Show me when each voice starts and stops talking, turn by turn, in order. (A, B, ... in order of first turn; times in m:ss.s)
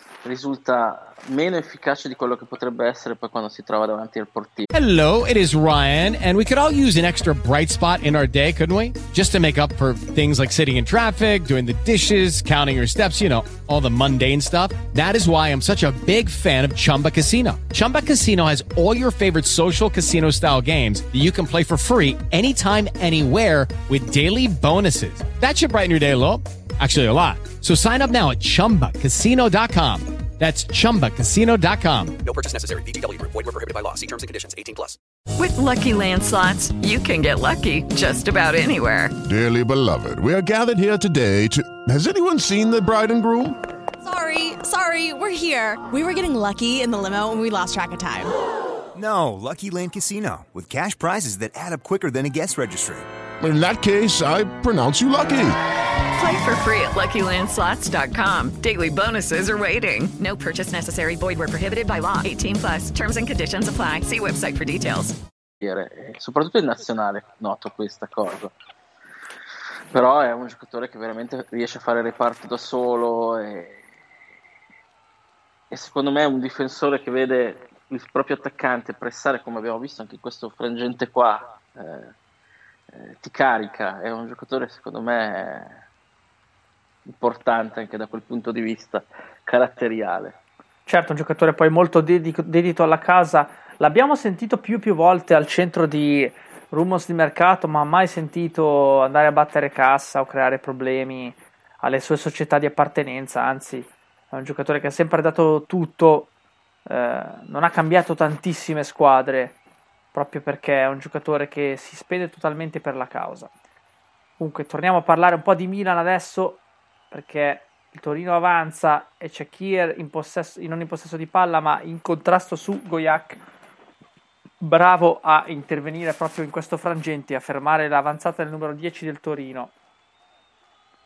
0:00.2-0:04.6 A
0:04.7-0:32.2 B
0:32.2-0:35.0 C
0:35.4-0:39.1 D
0:39.3-0:43.6 E
0:44.0-0:48.3 F
0:48.9-0:53.0 G
0:53.4-0:55.6 E
0:56.2-1:05.2 D
1:05.6-1:08.5 A
1:09.9-1:13.8 A
1:15.7-1:22.1 A
1:22.9-1:25.8 A
1:27.0-1:30.4 A
1:30.8-1:46.3 H
1:46.9-1:49.6 H
1:50.1-1:53.5 H
1:54.4-2:03.4 H
2:04.6-2:09.7 H